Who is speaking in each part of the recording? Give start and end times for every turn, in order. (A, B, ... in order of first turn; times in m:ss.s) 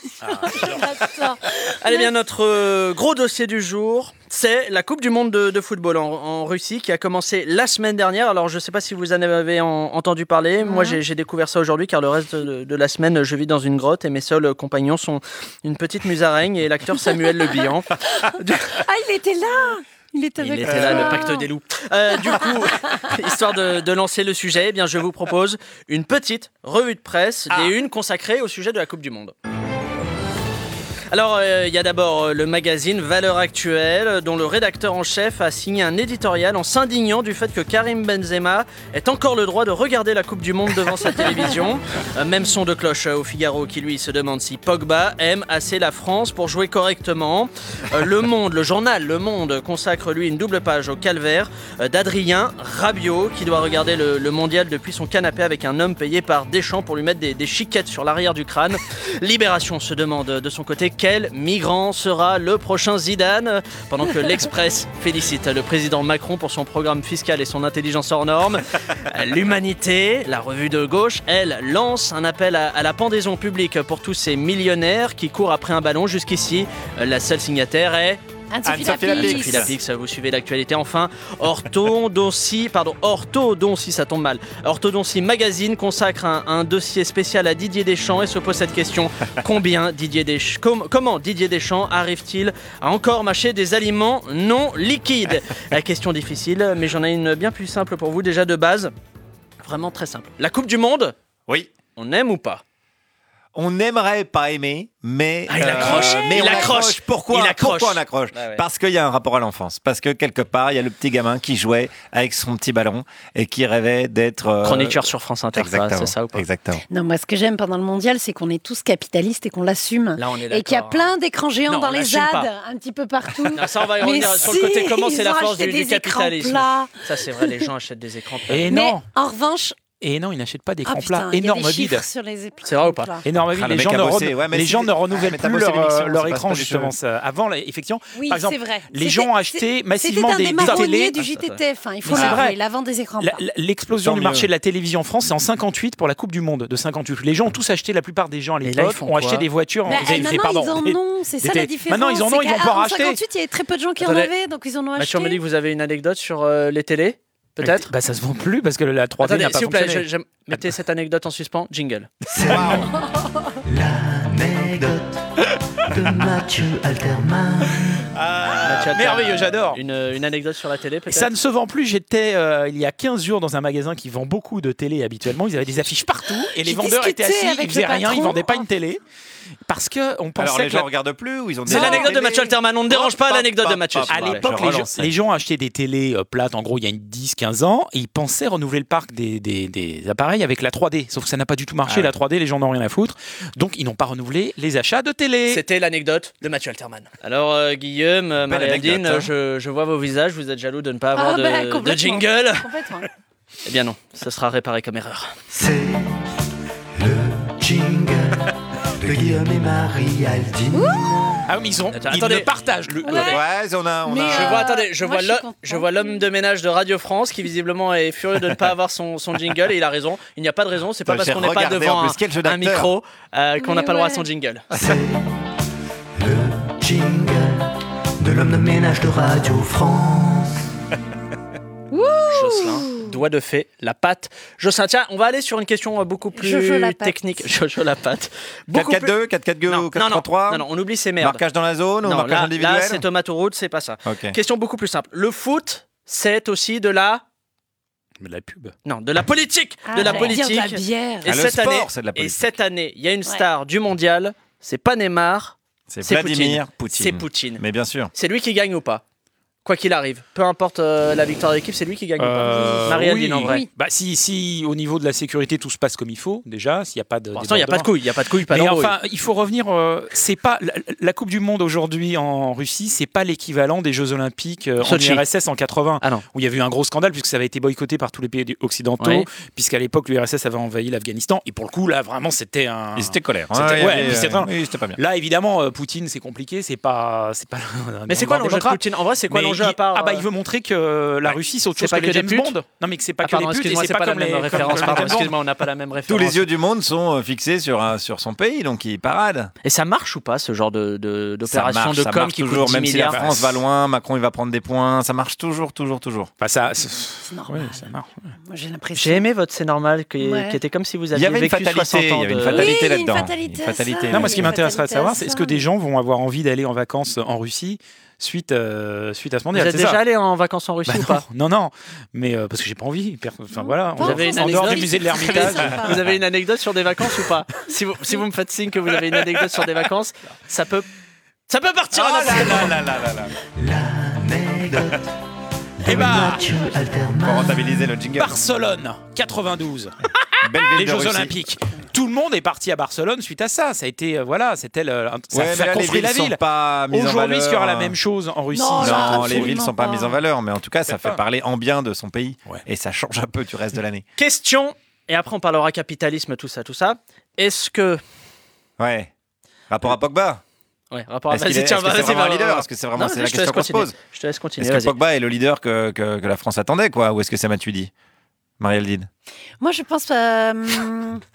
0:00.2-0:00.8 A
0:00.3-0:02.1 B
0:01.8-0:18.8 C
0:10.6-0:11.0 B
0:18.8-0:21.5 B
0:20.4-0:29.3 C
0:20.6-0:21.2 D
0:31.1-1:18.2 C
1:18.5-1:19.7 B
1:18.6-1:19.7 D
1:18.8-1:38.9 C
1:39.6-1:41.1 C
1:41.9-1:42.6 C
1:43.5-1:55.0 D
1:45.5-1:48.6 C
1:45.9-1:46.6 B
1:54.6-1:56.4 C
1:55.5-1:56.8 D
1:56.9-2:07.6 B
2:00.2-2:01.1 C
2:01.7-2:02.5 C
2:03.5-2:08.8 C
2:08.5-2:09.0 A
2:08.7-2:09.8 B
2:10.0-2:12.0 A
2:10.8-2:13.2 B
2:12.6-2:13.1 C
2:13.2-2:21.2 A
2:13.5-2:16.9 D
2:18.1-2:23.4 B
2:20.6-2:21.6 C
2:22.0-2:22.6 A
2:23.2-2:33.2 A
2:24.0-2:24.5 D
2:28.6-2:30.3 C
2:29.8-2:35.4 B
2:34.0-2:34.3 C
2:35.0-2:37.9 C
2:37.6-2:40.6 A
2:39.2-2:42.1 C
2:42.3-2:42.8 E
2:42.4-2:42.9 D
2:43.6-2:45.2 E
2:45.8-2:48.0 E
2:48.2-2:51.3 C
2:48.6-2:49.8 A
2:51.1-2:59.0 A
2:56.6-2:58.6 B
2:59.6-3:00.9 A
3:00.4-3:05.1 D
3:01.7-3:04.4 C
3:01.8-3:02.0 B
3:04.1-3:15.6 A
3:11.8-3:12.1 D
3:15.5-3:22.7 C
3:18.4-3:19.3 D
3:21.1-3:23.1 B
3:23.6-3:25.3 C
3:25.5-3:26.2 E
3:27.0-3:31.4 E
3:30.7-3:31.1 B
3:31.5-3:33.4 A
3:31.9-3:32.5 C
3:33.0-3:33.4 B
3:33.1-3:34.7 D
3:34.0-3:36.3 B
3:34.2-3:44.7 C
3:41.0-3:42.9 D
3:43.6-3:44.2 B
3:44.7-3:45.4 E
3:46.2-3:50.5 E
3:51.9-3:53.2 B
3:52.3-3:59.1 C
3:56.3-3:57.4 B
3:58.7-4:00.7 D
3:59.7-4:01.4 C
4:01.2-4:03.0 D
4:02.0-4:07.2 C
4:04.0-4:04.4 D
4:08.2-4:08.7 A
4:08.8-4:17.6 C
4:09.9-4:11.3 B
4:11.2-4:12.5 D
4:15.9-4:18.1 D
4:18.1-4:19.0 C
4:19.6-4:23.6 C
4:22.2-4:27.9 A
4:22.5-4:23.7 B
4:27.3-4:28.9 C
4:28.5-4:55.3 A
4:34.8-4:35.2 C
4:39.0-4:39.3 C
4:43.0-4:45.0 D
4:43.7-4:44.1 C
4:48.1-4:50.2 C
4:51.2-4:52.5 C
4:53.2-4:56.5 C
4:54.5-4:55.1 D
4:56.1-4:59.5 D
4:59.6-5:03.2 C
5:01.5-5:06.3 D
5:03.1-5:03.5 A
5:06.4-5:08.3 A
5:07.2-5:07.9 B
5:08.4-5:09.2 B
5:09.0-5:12.8 C
5:10.2-5:10.6 B
5:11.1-5:14.6 D
5:12.5-5:15.6 B
5:14.1-5:20.0 A
5:19.5-5:21.2 C
5:20.8-5:25.8 A
5:23.5-5:26.0 B
5:24.0-5:30.9 C
5:31.5-5:32.8 C
5:31.9-5:33.3 D
5:33.6-5:35.1 E
5:35.8-5:37.8 E
5:35.8-5:36.4 A
5:37.2-5:38.4 D
5:38.2-5:39.9 A
5:40.4-5:41.4 D
5:40.6-5:49.6 A
5:45.3-5:48.0 D
5:48.5-5:50.2 B
5:48.8-5:54.0 D
5:50.9-5:51.2 A
5:54.2-5:58.0 C
5:58.8-5:59.1 D
5:59.7-6:00.4 D
6:00.9-6:04.9 C
6:01.3-6:03.9 D
6:04.6-6:07.9 D
6:08.6-6:09.1 D
6:09.6-6:11.2 B